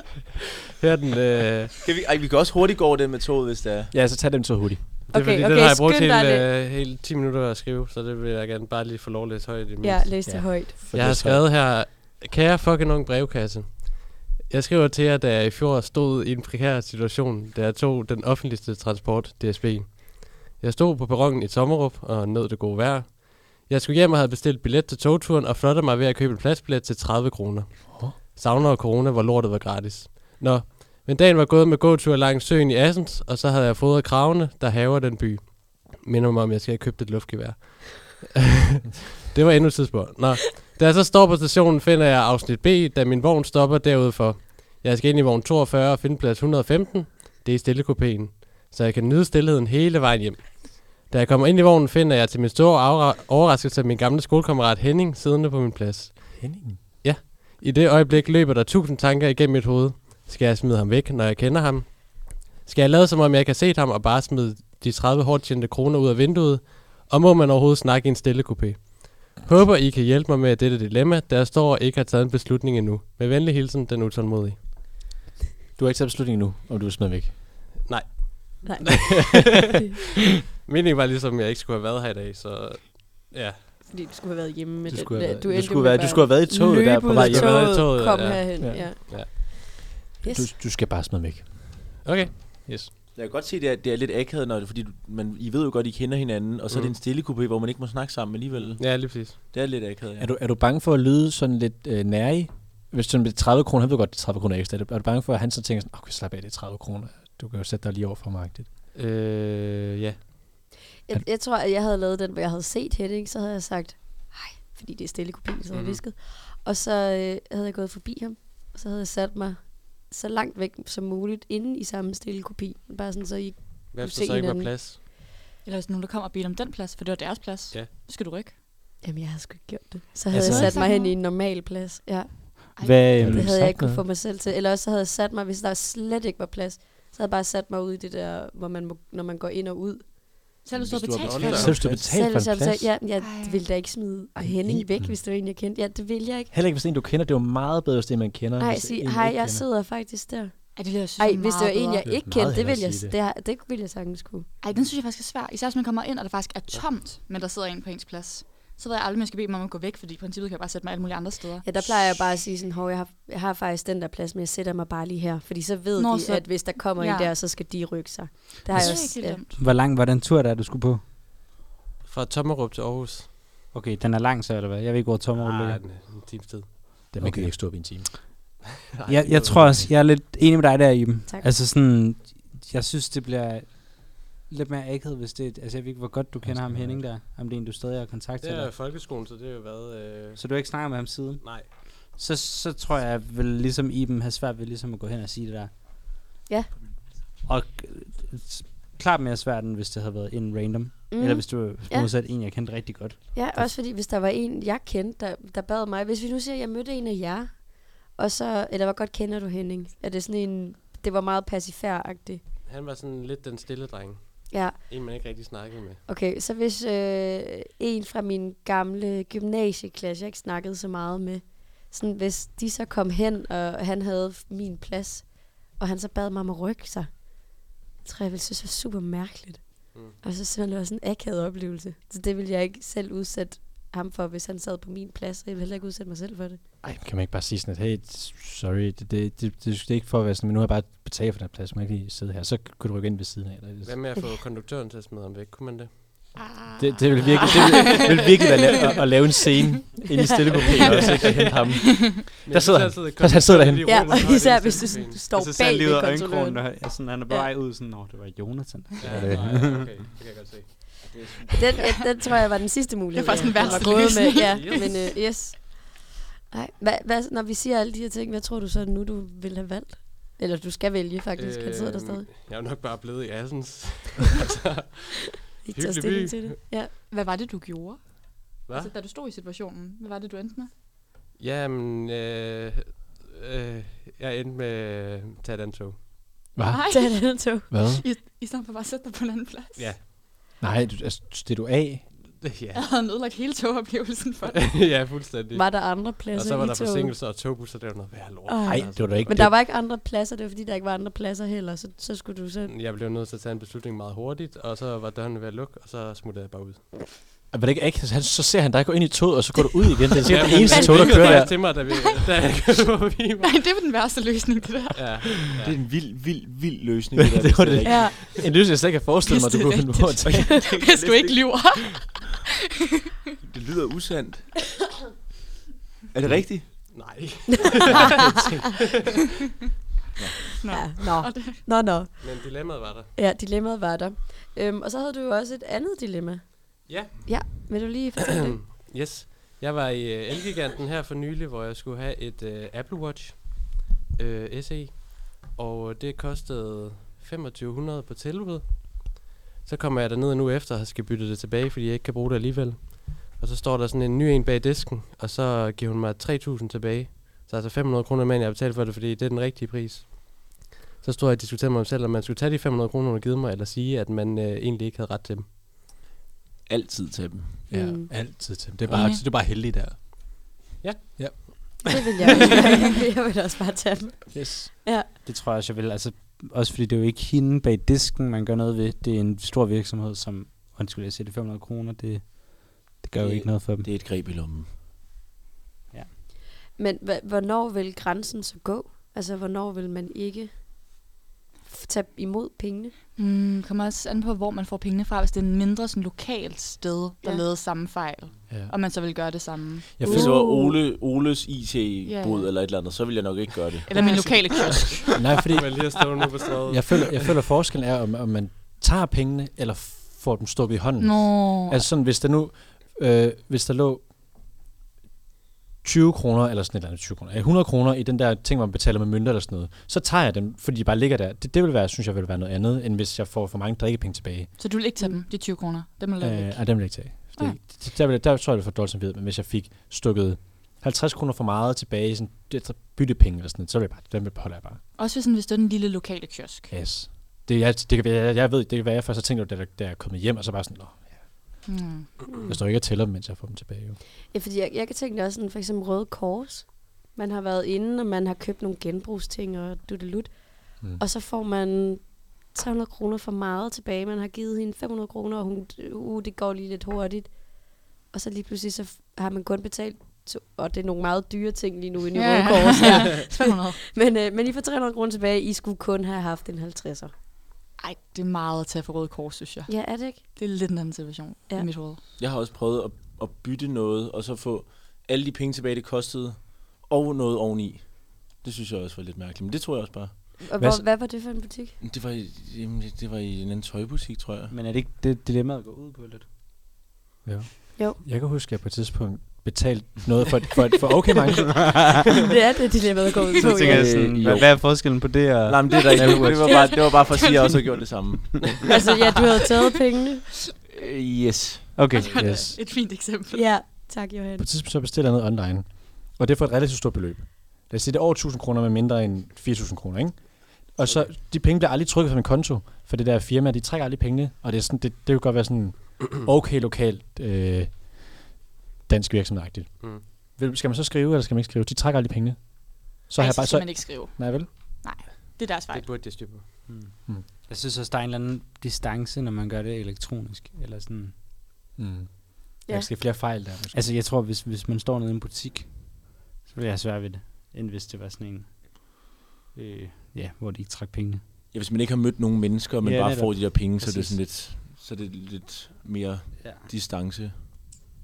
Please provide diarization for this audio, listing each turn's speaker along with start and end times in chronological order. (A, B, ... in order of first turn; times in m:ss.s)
0:00.8-0:01.7 A
0:01.8-0:03.9 B
0:03.9-0:04.9 C
0:05.1-0:10.3 A
0:05.1-0:06.5 D
0:09.8-0:10.9 D
0:10.2-0:11.5 C
0:10.9-1:14.7 A
0:56.4-0:56.8 C
1:15.8-1:17.8 C
1:17.8-1:19.8 A
1:18.6-1:19.4 D
1:20.7-1:23.7 A
1:23.9-1:29.7 D
1:24.9-1:27.9 C
1:27.1-1:29.3 A
1:28.6-1:29.1 C
1:30.2-1:30.5 D
1:30.3-1:32.1 C
1:32.0-1:32.6 A
1:32.6-1:32.9 C
1:33.2-1:40.4 B
1:36.7-1:37.0 A
1:38.8-1:39.4 A
1:40.2-1:48.7 C
1:48.9-1:50.6 A
1:51.0-2:04.7 D
1:55.7-1:56.0 A
2:03.9-2:05.0 A
2:05.6-2:08.6 E
2:09.0-2:20.6 D
2:10.3-2:10.8 F
2:10.3-2:11.2 E
2:12.8-2:13.2 E
2:12.8-2:13.6 F
2:13.2-2:14.0 C
2:20.6-2:21.9 E
2:20.7-2:22.2 B
2:21.2-2:21.8 A
2:21.6-2:22.9 C
2:22.1-2:26.5 D
2:23.2-2:23.6 E
2:24.4-2:25.2 C
2:26.5-2:29.6 C
2:28.6-2:34.5 D
2:30.8-2:32.0 E
2:32.0-2:33.2 C
2:34.6-2:41.7 E
2:41.6-2:49.4 D
2:46.0-2:47.3 E
2:48.7-2:49.6 E
2:49.5-2:51.0 F
2:52.0-2:53.3 A
2:53.7-2:55.8 F
2:55.4-2:57.1 A
2:57.1-2:58.2 C
2:57.2-2:57.6 F
2:58.9-2:59.8 A
2:59.1-3:08.7 F
2:59.5-2:59.9 C
3:06.4-3:07.1 C
3:08.4-3:10.4 A
3:10.4-3:15.8 F
3:11.4-3:11.7 A
3:17.4-3:23.7 F
3:21.1-3:22.1 D
3:23.4-3:32.4 D
3:32.7-3:36.0 A
3:34.5-3:34.9 D
3:36.1-3:56.6 D
3:49.9-3:50.2 A
3:56.8-4:04.0 C
4:03.8-4:06.3 A
4:06.4-4:07.0 E
4:06.8-4:14.0 C
4:07.4-4:08.9 A
4:10.2-4:10.7 D
4:10.6-4:15.2 A
4:12.0-4:12.2 E
4:13.8-4:16.7 D
4:15.3-4:19.9 F
4:19.0-4:20.9 A
4:21.1-4:21.5 B
4:21.5-4:32.3 D
4:21.8-4:22.0 E
4:23.2-4:25.1 E
4:23.4-4:25.1 A
4:31.4-4:35.0 A
4:35.6-4:36.9 D
4:35.7-4:36.6 A
4:37.1-4:40.7 E
4:38.7-4:38.9 A
4:41.4-4:46.1 A
4:46.6-4:48.0 C
4:46.7-4:49.9 E
4:46.9-4:47.7 D
4:49.8-4:50.0 A
4:50.6-4:52.1 C
4:52.4-4:52.9 A
4:52.8-4:54.7 E
4:54.5-4:59.4 A
4:55.5-4:57.1 D
4:58.5-5:02.7 D
4:58.6-4:59.6 C
5:02.7-5:06.8 A
5:07.5-5:11.6 C
5:10.2-5:13.6 A
5:10.6-5:11.5 D
5:13.4-5:15.5 E
5:15.0-5:15.8 A
5:15.5-5:18.1 B
5:17.3-5:20.6 C
5:17.8-5:18.2 D
5:19.3-5:22.4 E
5:20.2-5:21.6 B
5:23.4-5:24.5 B
5:26.1-5:26.9 B
5:26.9-5:28.2 A
5:30.6-5:31.7 E
5:30.7-5:38.6 D
5:32.2-5:33.1 A
5:36.8-5:37.7 A
5:38.2-6:05.5 A
6:06.7-6:07.7 B
6:07.7-6:10.1 C
6:07.7-6:08.1 D
6:08.9-6:09.2 A
6:08.9-6:09.2 E
6:10.8-6:11.8 A
6:11.2-6:11.9 C
6:11.8-6:15.1 D
6:14.3-6:14.7 C
6:15.2-6:23.9 F
6:23.2-6:24.7 B
6:26.8-6:30.6 D
6:31.7-6:33.0 D
6:33.2-6:40.1 E
6:38.5-6:38.8 C
6:40.0-6:40.3 C
6:40.0-6:43.9 B
6:40.0-6:40.8 D
6:42.0-6:42.5 E
6:43.9-6:45.3 E
6:44.7-6:47.3 A
6:45.2-6:45.9 C
6:46.7-6:54.1 C
6:51.0-6:51.8 E
6:55.8-7:04.5 C
7:04.6-7:07.6 E
7:06.2-7:14.8 C
7:15.0-7:16.7 E
7:16.7-7:21.3 C
7:21.7-7:22.1 E
7:22.3-7:22.6 D
7:22.5-7:24.0 C
7:24.3-7:47.1 D
7:42.2-7:43.8 E
7:47.8-7:52.0 E
7:49.7-7:50.2 D
7:52.2-8:00.3 B
8:00.4-8:01.8 D
8:00.6-8:00.9 C
8:01.8-8:04.5 B
8:04.5-8:06.2 F
8:07.2-8:12.0 C
8:12.3-8:14.0 D
8:13.4-8:16.9 F
8:13.5-8:14.7 B
8:15.5-8:18.5 B
8:15.9-8:17.4 E
8:16.5-8:16.7 D
8:18.7-8:20.3 D
8:20.7-8:21.9 B
8:21.8-8:22.1 F
8:21.9-8:23.5 E
8:22.0-8:22.4 A
8:22.1-8:22.6 C
8:23.3-8:24.5 D
8:24.4-8:38.3 C
8:38.9-8:44.5 C
8:43.2-8:45.9 E
8:45.7-8:46.5 A
8:46.7-8:46.9 F
8:47.4-8:51.1 F
8:51.8-8:53.8 C
8:53.7-8:58.9 F
8:59.6-9:01.2 F
9:01.5-9:07.4 B
9:02.8-9:04.2 F
9:06.4-9:06.7 F